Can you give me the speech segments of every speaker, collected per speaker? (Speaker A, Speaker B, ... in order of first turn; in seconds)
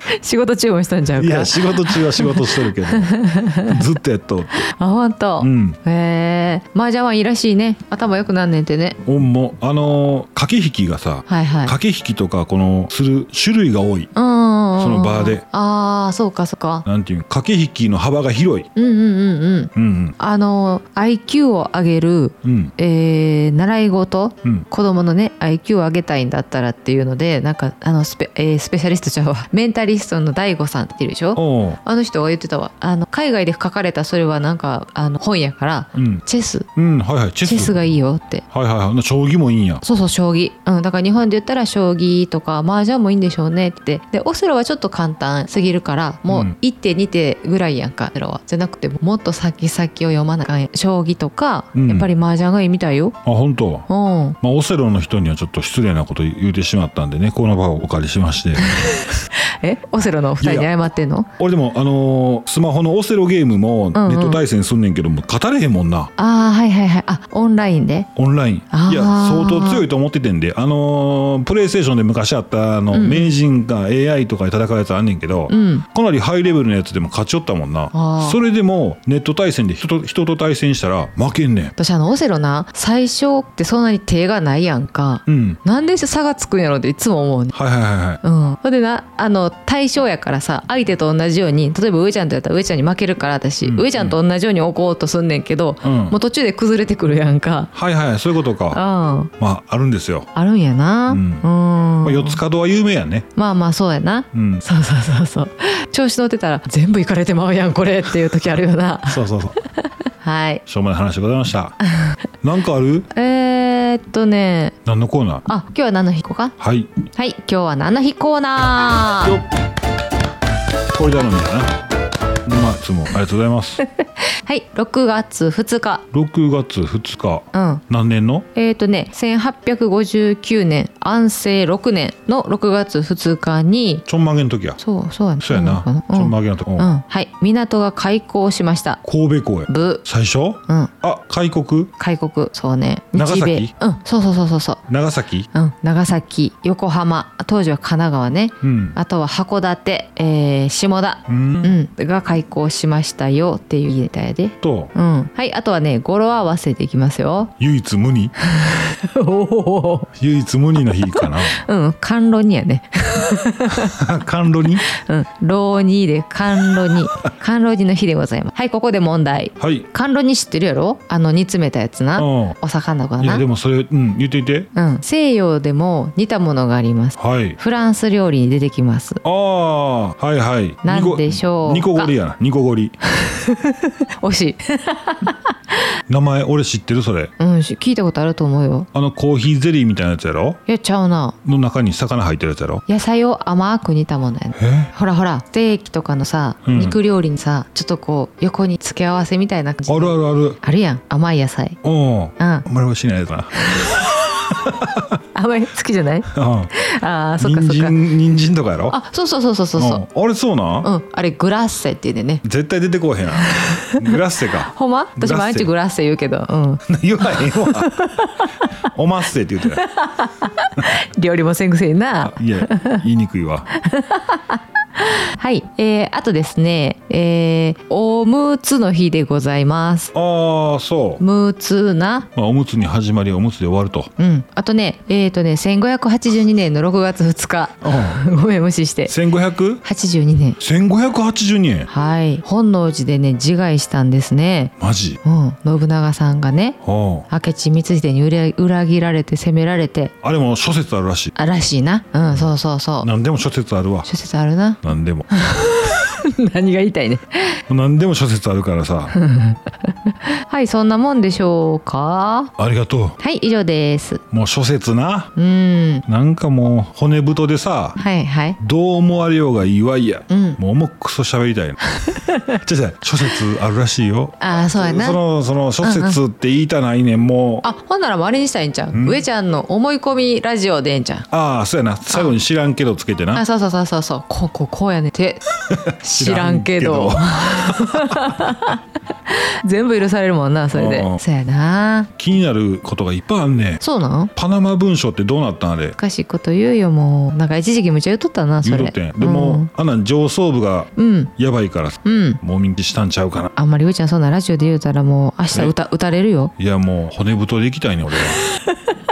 Speaker A: 0.1-3.8, 4.6-9.0, 11.3-11.7, 14.1-16.9, 18.8-36.7, 37.4-38.4, 39.8-53.1, 53.9-54.4, 58.6-61.3, 63.9-64.4, 66.2-68.1, 68.7-69.8, 72.9-73.3, 75.5-75.8, 77.9-78.4, 81.8-87.5, 88.2-97.7, 98.7-99.3, 100.3-102.4, 103.3-109.2, 110.2-110.6, 113.1-114.8, 115.5-116.5, 117.1-119.4, 123.8-126.0, 127.5-127.8, 128.5-134.0, 134.8-139.0, 139.7-140.0, 142.0-144.8, 145.5-157.5, 158.4-160.1, 161.2-163.9, 164.9-173.4, 174.7-179.2, 180.8-182.1, 183.1-185.8, 187.4-188.9, 190.7-191.3, 192.9-201.8, 202.4-202.7, 203.6-204.2, 205.3-208.0, 208.9-210.0, 210.8-212.4, 213.3-218.7, 219.8-223.0, 223.7-230.1, 231.2-232.3, 234.2-239.1, 239.8-240.6, 241.9-244.7, 245.2-246.8, 247.3-250.1, 251.3-253.1, 254.1-257.6, 259.1-262.5, 263.2-264.2, 265.4-266.0, 268.0-268.6, 270.3-270.6, 272.0-272.6, 274.4-275.2, 275.8-276.2, 277.6-281.3, 283.3-285.4, 286.0-292.1, 293.8-294.3, 296.0-299.7, 300.9-301.3, 302.0-302.4, 303.6-306.5, 308.5-308.9
Speaker B: 1.2-4.7, 5.4-5.8, 9.0-14.1, 14.8-15.4, 16.8-18.7, 19.7-20.1, 22.4-22.7, 31.4-31.8, 35.9-36.2, 36.8-37.7, 38.5-39.8, 46.3-46.5, 51.7-52.1, 53.2-53.9, 54.4-58.8, 60.4-60.7, 61.4-66.1, 68.2-81.7, 85.3-85.6, 87.5-88.2, 93.6-94.2, 95.8-96.1, 97.7-98.8, 99.4-100.3, 101.1-101.5, 102.0-103.3, 104.3-104.6, 109.1-109.6, 110.7-111.8, 112.4-113.1, 114.8-115.4, 116.6-116.9, 120.9-121.7, 122.5-123.8, 126.1-128.4, 134.1-134.8, 135.4-136.9, 139.0-141.9, 143.1-143.7, 144.9-145.5, 148.6-148.9, 151.3-151.8, 154.6-154.9, 157.6-158.3, 160.2-161.6, 163.7-164.9, 169.6-169.8, 172.2-172.6, 173.2-174.7, 177.2-177.6, 179.2-182.9, 186.1-187.3, 188.9-190.6, 191.4-192.8, 194.6-194.9, 196.6-197.0, 199.9-200.6, 201.8-205.2, 206.3-206.7, 207.4-208.9, 209.8-210.9, 212.4-215.7, 216.9-217.9, 218.9-219.8, 222.2-223.7, 230.1-231.2, 232.3-234.1, 237.8-238.2, 239.1-239.8, 240.6-241.9, 244.8-245.2, 246.8-247.3, 250.2-251.3, 253.0-254.1, 254.8-255.3, 257.7-259.1, 262.6-263.2, 264.3-265.3, 266.1-268.0, 268.6-277.6, 278.9-279.2, 281.3-283.4, 285.6-288.5, 290.7-291.2, 292.2-293.8, 294.3-296.0, 298.6-303.5, 306.6-308.4